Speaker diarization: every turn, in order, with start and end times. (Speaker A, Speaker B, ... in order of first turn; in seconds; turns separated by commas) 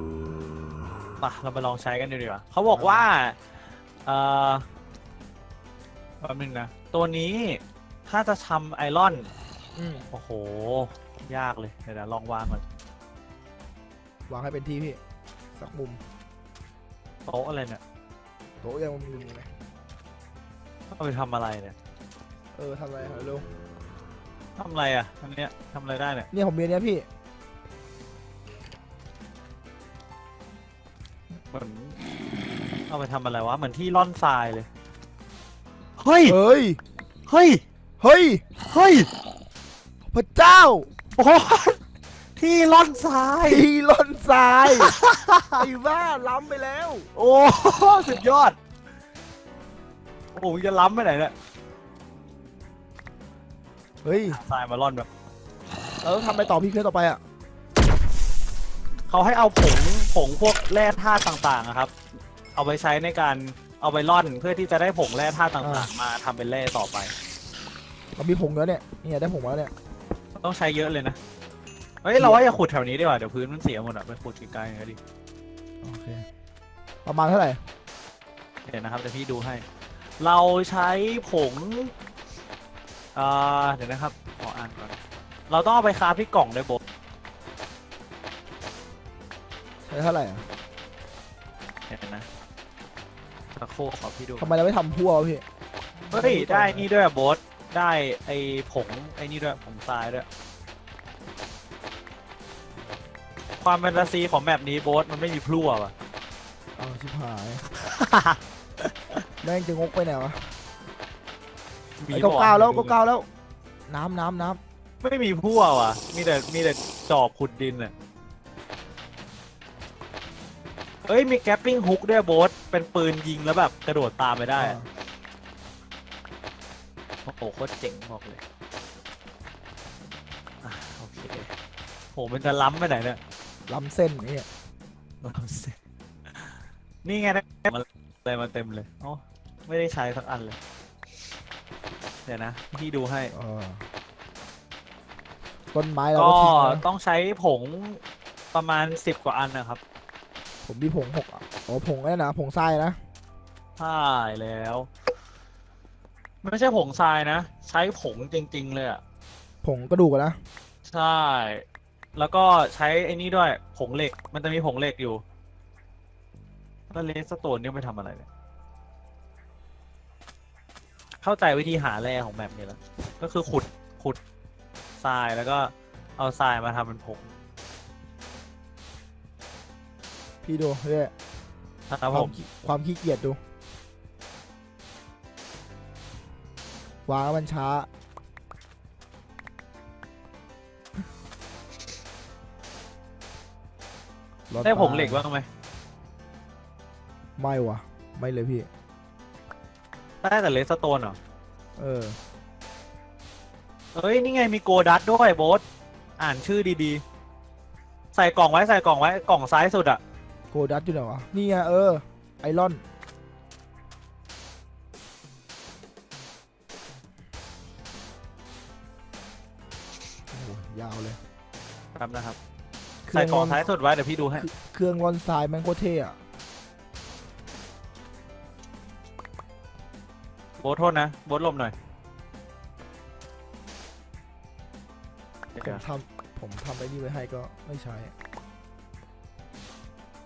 Speaker A: 1.2-3.5, Speaker B: 2.7-3.0, Speaker A: 4.0-4.6, Speaker A: 6.2-9.3, Speaker B: 9.7-10.1, Speaker A: 10.1-12.6, Speaker B: 14.3-15.0, Speaker B: 15.6-16.0, Speaker A: 17.2-17.8, Speaker B: 18.6-19.5, Speaker A: 20.9-21.7, Speaker B: 22.5-23.5, Speaker A: 24.6-26.3, Speaker B: 26.3-27.1, Speaker A: 31.5-32.0, Speaker A: 32.9-34.7, Speaker A: 36.0-36.4, Speaker B: 36.2-36.8, Speaker A: 37.3-37.6, Speaker B: 38.0-38.4, Speaker A: 38.6-39.1, Speaker B: 40.1-40.9, Speaker A: 41.2-41.8, Speaker A: 42.4-43.6, Speaker B: 43.4-44.9, Speaker A: 44.8-45.6, Speaker B: 45.5-47.1, Speaker A: 47.1-48.6, Speaker A: 50.4-51.3, Speaker B: 54.0-54.4, Speaker A: 54.3-55.1, Speaker B: 56.0-57.2, Speaker A: 59.1-61.9, Speaker A: 62.5-67.1, Speaker B: 65.6-65.9, Speaker B: 68.2-69.7, Speaker A: 70.4-71.2, Speaker A: 72.0-75.0, Speaker B: 75.8-76.2, Speaker B: 77.0-77.6, Speaker A: 78.6-79.6, Speaker A: 80.2-81.9, Speaker A: 83.1-86.8, Speaker B: 89.8-90.5, Speaker A: 91.9-92.3, Speaker A: 93.5-94.5, Speaker B: 94.4-95.4, Speaker B: 96.0-96.9, Speaker A: 96.1-100.2, Speaker A: 103.6-105.9, Speaker B: 106.8-107.6, Speaker A: 107.8-109.2, Speaker B: 109.4-110.6, Speaker A: 112.0-113.0, Speaker B: 112.1-113.2, Speaker B: 113.9-114.6, Speaker A: 115.0-117.9, Speaker A: 121.0-124.8, Speaker B: 124.6-124.9, Speaker A: 127.2-128.4, Speaker A: 130.6-131.5, Speaker A: 132.1-133.2, Speaker B: 133.7-134.5, Speaker A: 135.2-135.8, Speaker A: 137.0-140.6, Speaker A: 142.2-143.3, Speaker B: 143.3-143.8, Speaker B: 145.7-146.8, Speaker A: 146.1-148.0, Speaker A: 148.5-149.8, Speaker B: 150.6-153.0, Speaker A: 153.8-154.9, Speaker A: 156.4-159.0, Speaker B: 159.6-160.4, Speaker A: 160.9-161.6, Speaker A: 162.1-165.2, Speaker A: 166.9-168.3, Speaker A: 171.2-174.2, Speaker A: 175.0-177.3, Speaker B: 180.4-181.1, Speaker A: 181.9-182.4, Speaker B: 182.1-183.4, Speaker B: 187.1-187.9, Speaker B: 194.5-195.2, Speaker A: 194.6-195.5, Speaker B: 197.4-198.7, Speaker A: 200.2-201.2, Speaker B: 201.8-202.2, Speaker A: 203.9-205.6, Speaker A: 206.2-207.0, Speaker A: 208.1-210.0, Speaker B: 210.5-212.8, Speaker B: 220.3-221.2, Speaker A: 221.9-222.4, Speaker B: 223.1-223.7, Speaker A: 223.1-224.5, Speaker B: 224.3-226.2, Speaker A: 230.6-231.7, Speaker A: 235.5-235.8, Speaker B: 235.6-238.1